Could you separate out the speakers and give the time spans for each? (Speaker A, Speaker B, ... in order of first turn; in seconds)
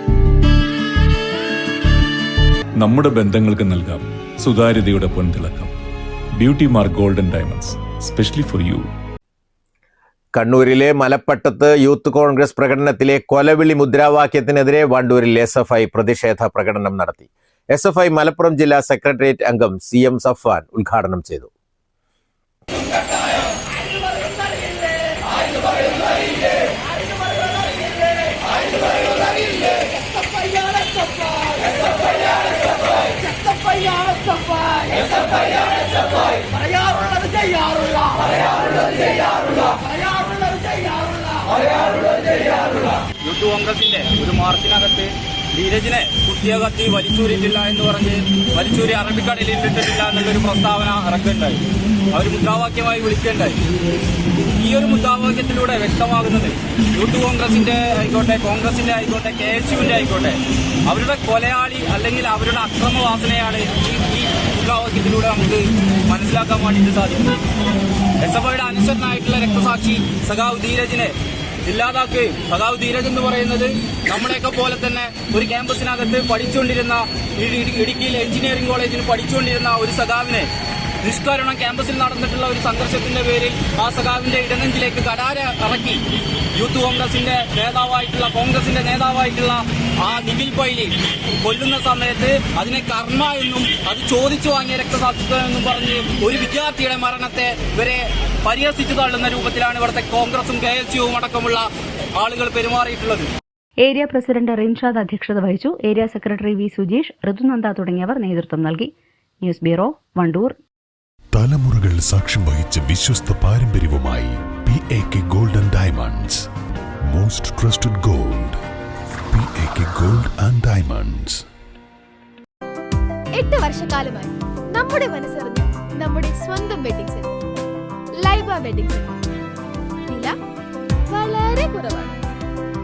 Speaker A: 2.8-5.7, 6.4-8.9
Speaker B: 10.3-21.5
Speaker C: 43.2-53.6, 54.6-67.4, 68.2-71.1, 71.7-80.5, 81.0-86.0, 86.5-101.7, 102.2-103.3
Speaker D: 103.8-110.6
Speaker E: 111.3-116.4, 117.1-118.6, 119.3-121.4
Speaker F: 123.3-127.3, 128.2-129.2, 131.1-132.2